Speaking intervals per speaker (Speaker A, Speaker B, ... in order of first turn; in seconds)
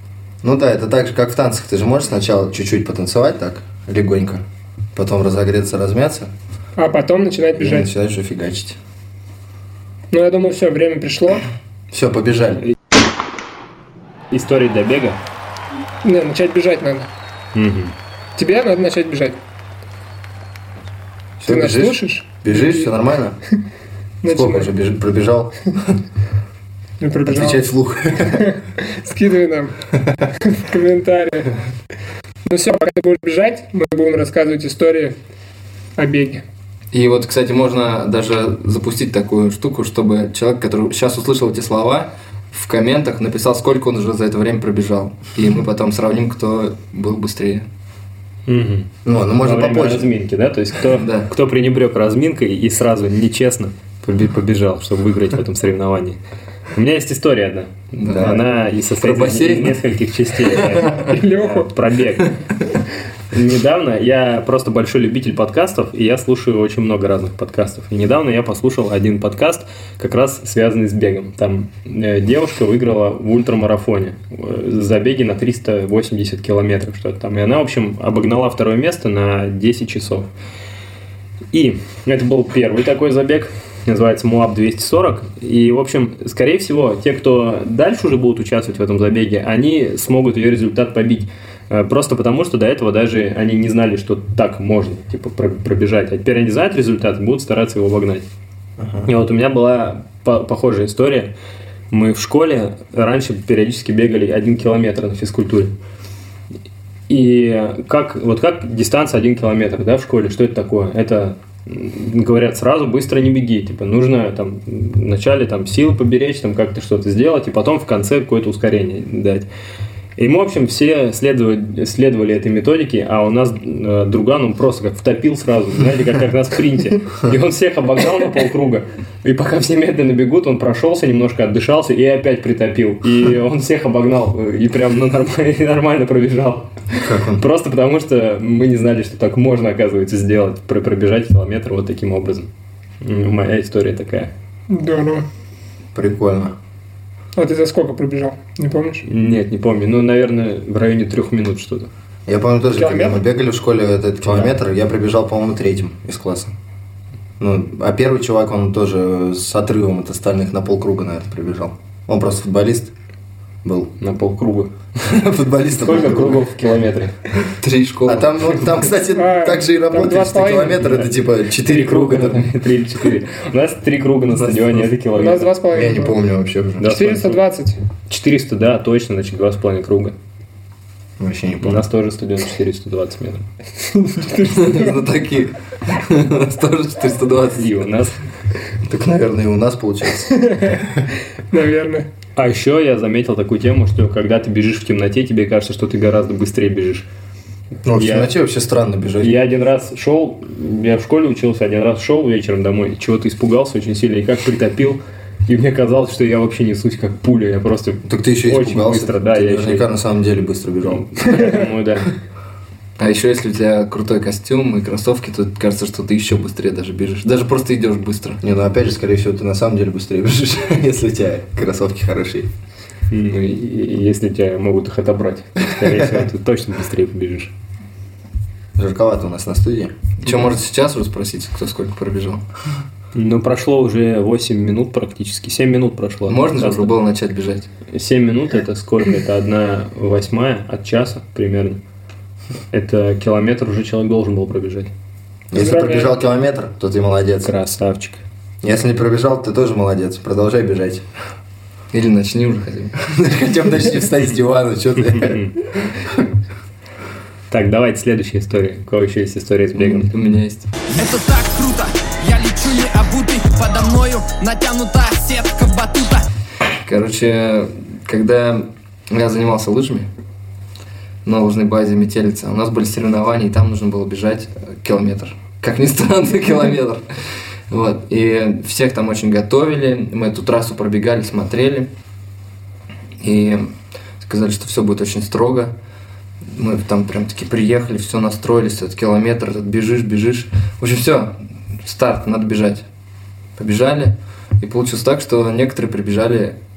Speaker A: 0.4-4.4, 4.9-6.3, 7.6-8.8, 11.9-12.6, 21.4-23.4, 24.3-26.0, 27.2-28.5, 49.0-50.1, 58.1-58.4, 98.8-99.1, 137.0-137.4, 145.9-146.6, 152.3-156.5, 157.4-162.9, 163.6-163.9, 165.0-166.4, 168.1-172.5, 175.7-176.9, 181.2-181.8, 188.8-191.0, 197.8-199.3, 208.0-211.5, 218.4-222.5, 228.8-229.9, 245.5-247.5, 248.6-251.0, 253.0-255.5
Speaker B: 6.8-7.9, 10.1-11.4, 16.0-17.1, 18.4-19.4, 21.4-22.9, 24.2-24.7, 27.0-27.6, 28.3-29.8, 30.4-31.5, 32.5-35.2, 36.0-36.4, 60.9-61.7, 144.7-145.2, 147.3-149.0, 152.8-153.2, 169.1-170.9, 175.2-176.2, 176.8-177.8, 183.9-185.0, 190.4-190.8, 191.5-192.1, 245.5-246.2
Speaker C: 14.3-15.2, 17.5-17.9, 48.5-56.2, 56.7-62.4, 63.3-80.3, 81.5-98.2, 99.0-101.3, 101.9-105.8, 107.1-119.5, 120.2-142.5, 143.0-144.3, 149.1-151.9, 154.3-154.5, 164.0-164.7, 165.8-167.2, 171.6-175.6, 176.8-177.4, 178.1-180.2, 181.6-183.4, 187.5-188.2, 192.3-197.1, 197.9-198.3, 199.2-209.9, 210.9-212.1, 223.1-227.5, 233.1-236.9, 237.9-241.8, 242.7-244.9, 247.4-248.2, 255.2-255.5, 257.5-260.1
Speaker D: 36.9-47.7, 50.9-51.3, 58.0-58.4, 59.0-59.8, 60.5-61.1, 167.6-168.7, 184.4-187.7, 213.0-218.4, 230.2-232.4, 236.3-237.7, 251.9-253.0, 259.8-260.7, 266.8-270.1, 271.2-281.9, 283.2-285.7, 286.5-292.9, 293.6-296.6
Speaker E: 261.0-266.2